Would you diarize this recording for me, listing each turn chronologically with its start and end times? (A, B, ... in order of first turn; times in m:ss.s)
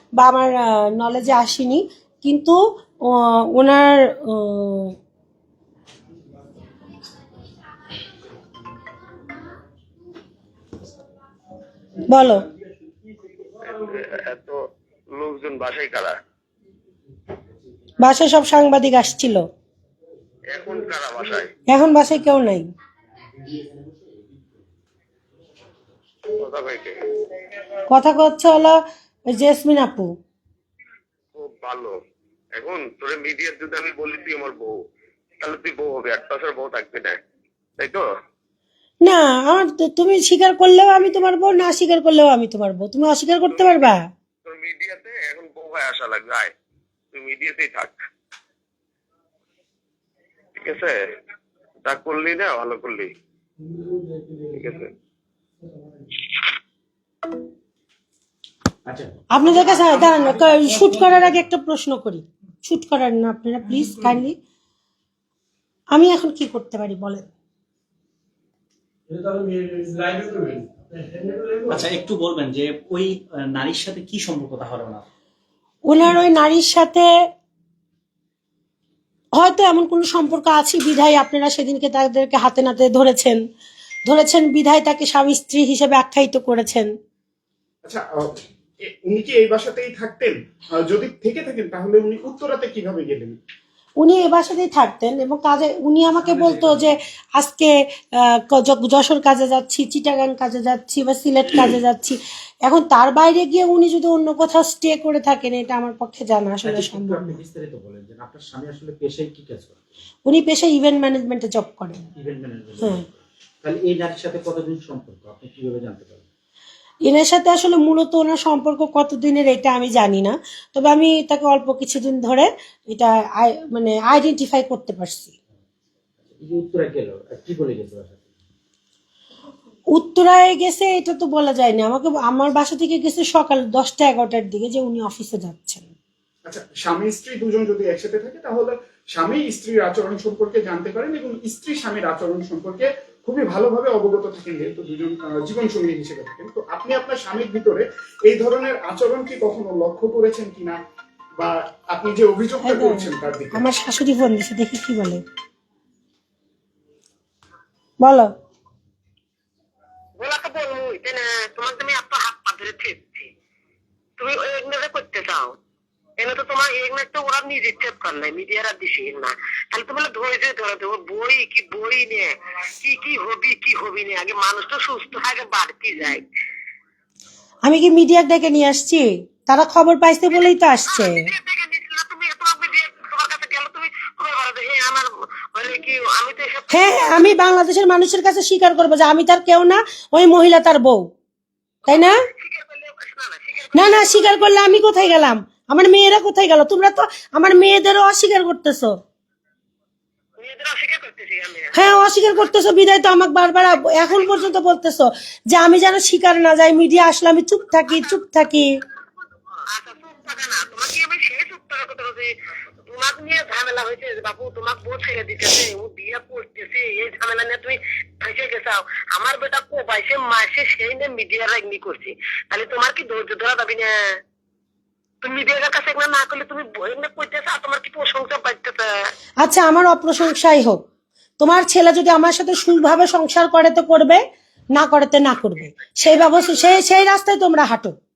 0:00.2-0:05.0 A
0:12.1-0:12.4 A
0:13.6-0:14.6 B
0:15.1-0:16.2 B
0:18.0-0:19.4 A
0:20.5-0:21.5 B
0:21.7-0:22.7 A
0:26.3-0:27.0 B
0:27.9-0:28.8 A
0:29.3-0:30.1 A
0:31.4-0:32.0 B
0:32.6-0:34.8 B
0:35.4-0:37.2 B
0:37.8-0:38.0 B
0:39.0-0:44.0 A
0:43.6-0:43.9 B
0:44.4-0:46.5 B
0:47.1-0:48.0 B
0:50.6-0:51.0 B
0:51.8-0:53.1 B
0:54.5-0:54.9 B
0:58.9-1:01.3 C
0:59.3-1:04.4 A
1:05.9-1:07.3 A
1:09.4-1:10.6 D
1:11.2-1:11.7 D
1:11.7-1:15.0 E
1:15.9-1:17.1 A
1:19.4-1:23.4 A
1:24.1-1:26.9 A
1:27.8-1:33.4 D
1:34.0-1:47.4 A
1:46.6-1:50.0 C
1:50.3-1:52.1 A
1:52.2-1:56.2 C
1:52.8-1:53.0 A
1:57.1-2:05.3 A
2:06.3-2:08.3 C
2:10.0-2:15.9 A
2:16.5-2:30.8 D
2:31.4-2:33.7 D
2:32.6-2:35.2 A
2:38.0-2:38.3 A
2:40.2-2:43.3 F
2:44.2-2:45.6 F
2:46.2-2:56.2 F
2:57.7-3:01.2 A
3:00.9-3:07.2 F
3:06.7-3:11.1 A
3:11.9-3:14.5 F
3:11.9-3:12.2 A
3:13.7-3:19.0 A
3:20.4-3:22.0 F
3:21.7-3:28.7 A
3:29.7-3:32.3 F
3:32.8-3:44.2 F
3:45.2-3:49.1 F
3:49.4-3:50.8 A
3:51.4-3:54.2 A
3:54.7-3:58.0 A
3:56.0-3:56.8 F